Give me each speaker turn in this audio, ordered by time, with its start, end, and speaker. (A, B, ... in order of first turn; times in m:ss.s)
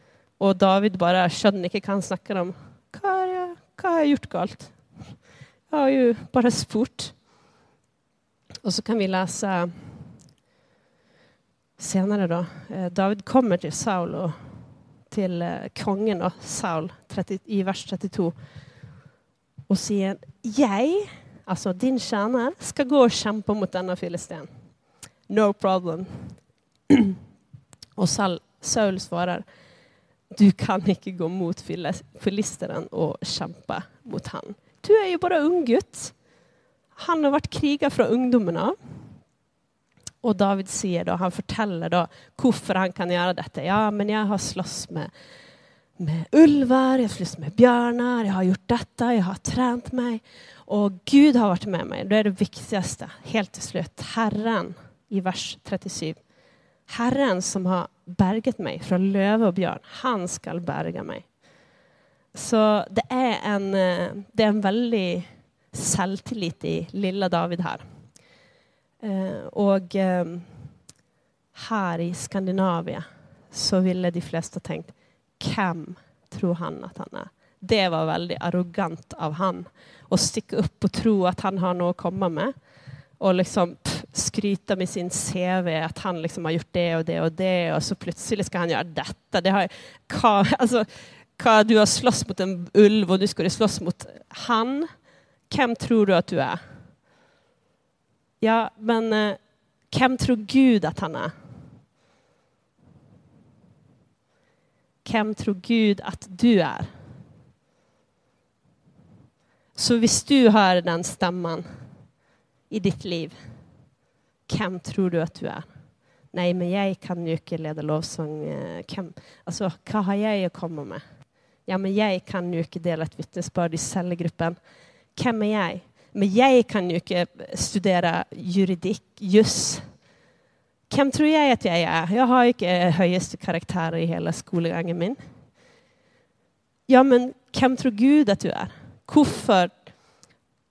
0:00.4-0:05.2 A
0:05.7-0:07.2 A
0:08.6-0:10.0 A
0:11.8-0:14.4 A
0:15.1-0:18.3 A
0:19.7-0:24.5 A
0:25.2-0:27.1 A
0:28.0-0:29.5 A
0:30.3-0:36.2 A
0:37.0-0:38.8 A
0:40.2-0:45.1 A
0:46.0-0:56.2 A
0:56.9-1:01.3 A
1:02.3-1:07.8 A
1:09.0-1:10.7 A
1:11.6-1:22.6 A
1:23.2-1:34.9 A
1:35.5-1:36.6 A
1:38.4-1:41.3 A
1:45.0-1:46.9 A
1:49.8-1:51.7 A
1:52.7-1:53.4 A
1:54.5-1:55.7 A
1:56.3-2:01.0 A
2:01.6-2:04.6 A
2:05.2-2:10.0 A
2:10.9-2:15.2 A
2:16.9-2:19.9 A